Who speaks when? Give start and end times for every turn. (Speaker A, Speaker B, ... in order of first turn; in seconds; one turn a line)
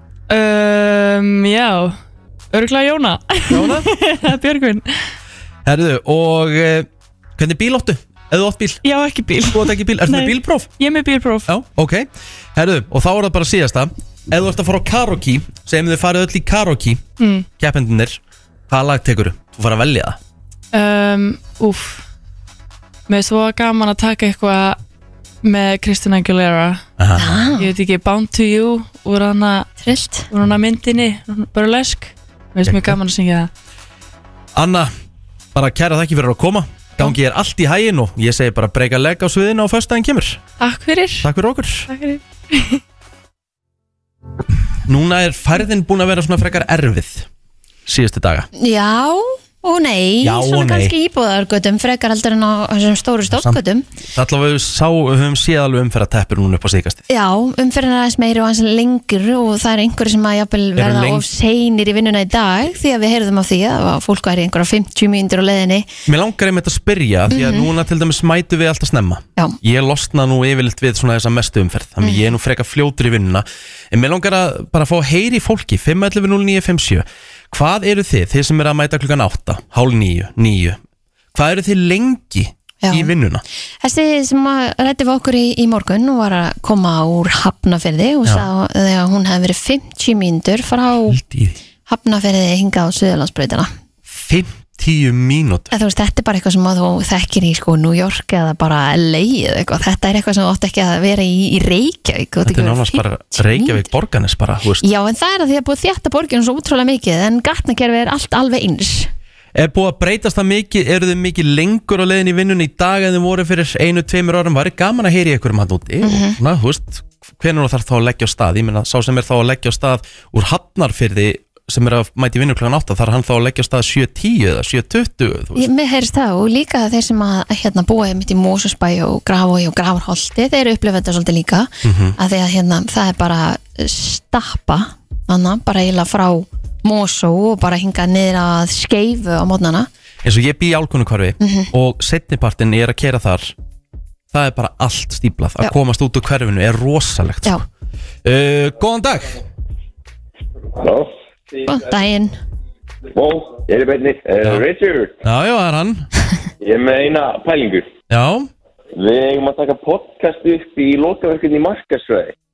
Speaker A: 0.3-2.0
Speaker A: 2.5-4.9
Speaker B: 3.5-3.9
Speaker B: 5.7-8.8
Speaker A: 8.8-11.5
Speaker B: 9.5-10.7
Speaker B: 11.5-17.0
Speaker A: 17.2-17.5
Speaker B: 17.6-20.2
Speaker A: 20.7-22.1
Speaker A: 23.1-24.8
Speaker A: 25.4-26.9
Speaker B: 27.0-27.5
Speaker C: 27.2-27.7
Speaker A: 27.6-29.7
Speaker C: 29.8-30.3
Speaker A: 30.3-33.5
Speaker B: 32.6-33.0
Speaker B: 34.5-34.9
Speaker B: 35.5-40.4
Speaker A: 40.6-41.3
Speaker B: 41.2-41.9
Speaker A: 41.9-42.8
Speaker B: 44.9-47.3
Speaker B: 47.9-48.5
Speaker C: 48.6-53.9
Speaker B: 50.2-51.0
Speaker B: 53.3-53.6
Speaker B: 54.1-57.0
Speaker C: 57.1-65.9
Speaker B: 60.8-61.3
Speaker B: 66.1-80.8
Speaker C: 67.3-67.7
Speaker C: 72.0-72.3
Speaker B: 81.3-83.4
Speaker C: 82.8-83.1
Speaker C: 83.8-91.2
Speaker B: 91.1-91.6
Speaker C: 91.9-93.7
Speaker B: 94.1-95.7
Speaker C: 95.7-103.9
Speaker B: 102.5-104.8
Speaker C: 104.8-109.1
Speaker B: 109.5-125.7
Speaker C: 116.0-116.4
Speaker C: 125.6-139.9
Speaker B: 131.8-132.2
Speaker B: 140.2-143.5
Speaker C: 141.4-141.7
Speaker B: 144.3-147.6
Speaker B: 148.2-149.4
Speaker C: 151.7-152.4
Speaker D: 153.2-155.1
Speaker B: 155.2-156.1
Speaker D: 156.6-157.8
Speaker B: 158.1-158.5
Speaker D: 159.0-162.2